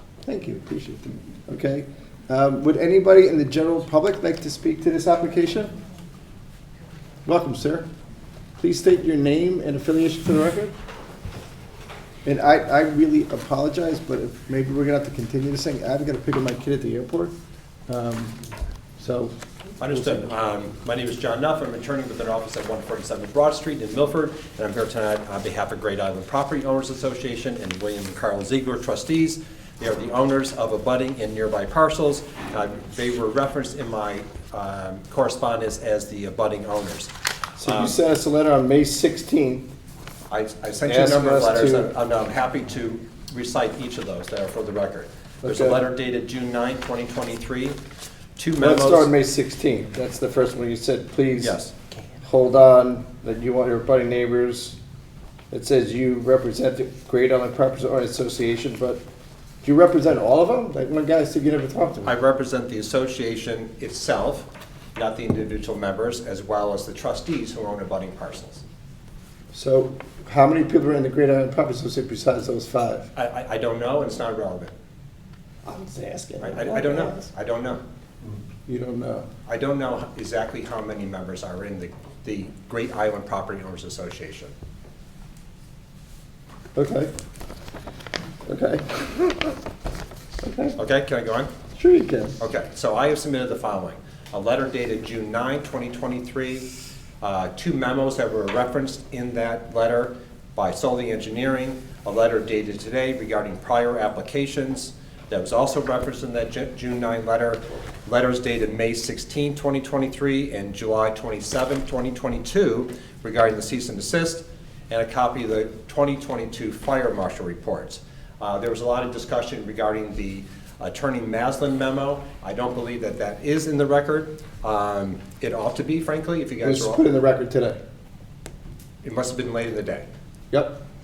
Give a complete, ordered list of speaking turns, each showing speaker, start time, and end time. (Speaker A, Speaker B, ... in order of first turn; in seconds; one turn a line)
Speaker A: 0.2-5.7
Speaker A: 7.2-7.9
Speaker A: 8.6-10.7
Speaker A: 12.2-17.3
Speaker A: 17.9-18.4
Speaker A: 19.0-20.3
Speaker B: 19.8-38.0
Speaker A: 37.6-39.7
Speaker B: 40.3-47.8
Speaker A: 40.9-41.9
Speaker A: 45.4-45.8
Speaker B: 48.4-49.1
Speaker A: 48.6-51.6
Speaker B: 51.4-51.7
Speaker A: 52.2-54.8
Speaker A: 55.5-59.0
Speaker A: 59.6-62.1
Speaker B: 62.0-68.6
Speaker A: 69.5-73.1
Speaker B: 73.1-74.7
Speaker A: 75.6-77.3
Speaker B: 76.4-77.8
Speaker A: 78.7-79.3
Speaker B: 79.5-84.5
Speaker A: 86.7-87.1
Speaker A: 88.5-89.5
Speaker A: 90.4-90.8
Speaker B: 90.8-91.5
Speaker A: 91.7-92.4
Speaker B: 92.4-96.7
Speaker B: 97.2-127.0
Speaker A: 126.6-127.8
Speaker B: 129.0-130.1
Speaker A: 130.5-130.8